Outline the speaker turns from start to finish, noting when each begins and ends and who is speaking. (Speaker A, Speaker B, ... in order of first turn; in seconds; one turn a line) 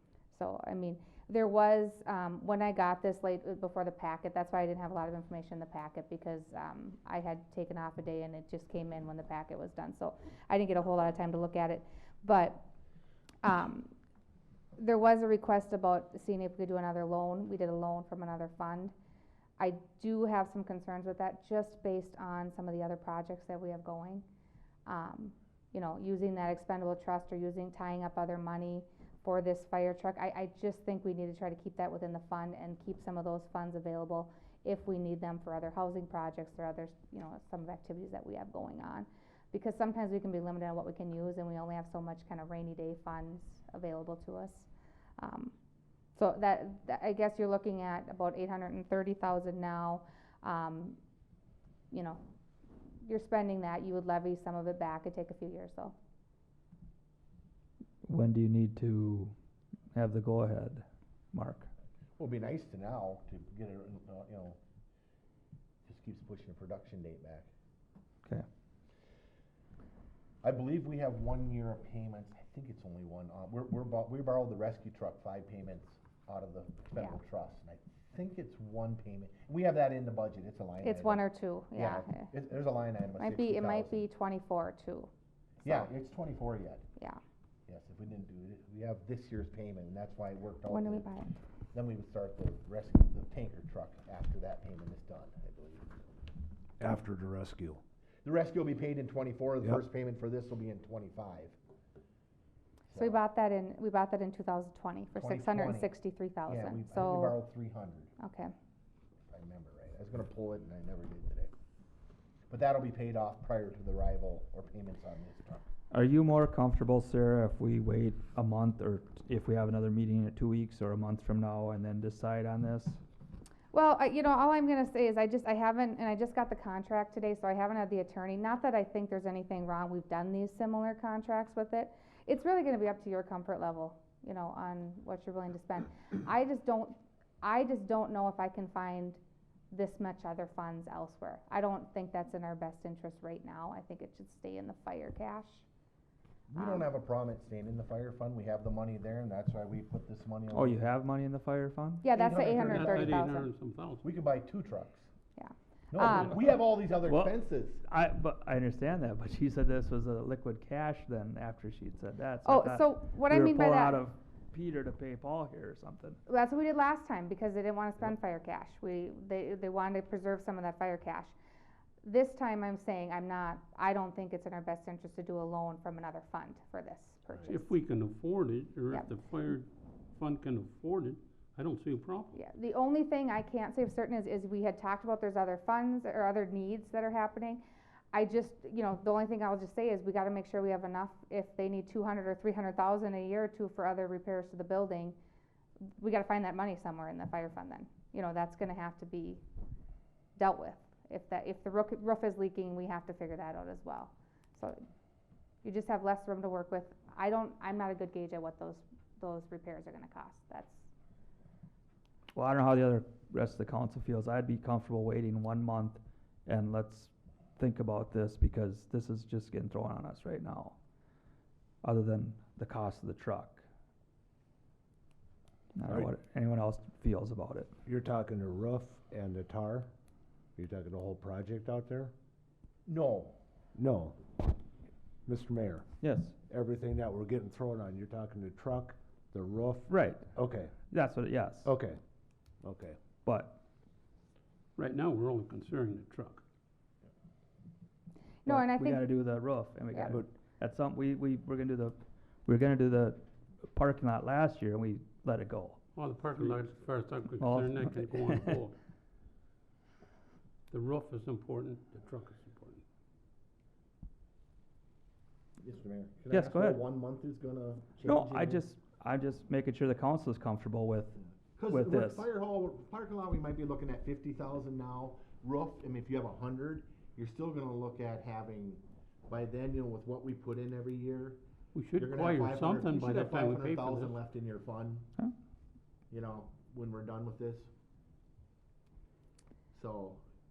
Speaker A: 0.3-12.7
Speaker A: 13.4-13.9
Speaker A: 14.8-18.9
Speaker A: 19.6-24.2
Speaker A: 24.9-45.5
Speaker A: 46.2-51.0
Speaker A: 51.9-52.2
Speaker A: 53.0-55.9
Speaker B: 58.1-59.3
Speaker B: 59.9-61.7
Speaker C: 62.2-64.6
Speaker C: 65.8-67.5
Speaker C: 70.4-84.0
Speaker A: 80.8-82.3
Speaker A: 83.2-85.1
Speaker C: 85.6-86.8
Speaker C: 87.7-91.1
Speaker A: 90.7-91.3
Speaker C: 91.7-96.1
Speaker D: 96.8-97.8
Speaker C: 98.2-101.5
Speaker C: 102.9-103.2
Speaker A: 102.9-107.4
Speaker C: 105.2-105.9
Speaker C: 106.5-108.1
Speaker A: 108.2-108.5
Speaker C: 109.3-111.5
Speaker C: 112.5-115.6
Speaker B: 115.9-123.0
Speaker A: 123.7-139.2
Speaker A: 139.7-145.7
Speaker C: 146.5-150.8
Speaker A: 146.5-146.9
Speaker B: 150.5-152.0
Speaker A: 152.0-153.5
Speaker C: 152.1-153.2
Speaker E: 152.6-154.0
Speaker C: 154.0-155.1
Speaker A: 155.4-156.4
Speaker C: 155.9-157.8
Speaker B: 157.0-166.2
Speaker A: 162.4-164.0
Speaker A: 166.3-171.3
Speaker A: 172.0-177.7
Speaker E: 177.5-182.3
Speaker A: 182.3-187.6
Speaker A: 188.1-195.2
Speaker A: 196.0-199.4
Speaker A: 200.3-204.8
Speaker A: 205.6-210.9
Speaker B: 212.3-220.8
Speaker B: 221.8-223.7
Speaker B: 225.8-227.7
Speaker D: 227.8-229.9
Speaker D: 230.6-232.1
Speaker C: 232.8-233.4
Speaker D: 233.8-234.2
Speaker D: 235.2-235.8
Speaker B: 236.0-236.3
Speaker D: 236.5-240.7
Speaker B: 239.9-241.7
Speaker D: 241.6-242.0
Speaker D: 242.6-243.0
Speaker B: 243.2-243.6
Speaker E: 244.8-246.4
Speaker A: 248.4-249.0
Speaker B: 248.5-255.8
Speaker A: 249.9-250.2
Speaker E: 255.9-258.8
Speaker B: 257.4-258.6
Speaker E: 260.7-262.8
Speaker C: 265.6-268.6
Speaker B: 266.3-266.8
Speaker B: 268.1-272.2
Speaker C: 271.5-281.4
Speaker E: 281.7-284.2
Speaker C: 282.0-285.1
Speaker C: 286.1-287.7
Speaker C: 289.7-290.2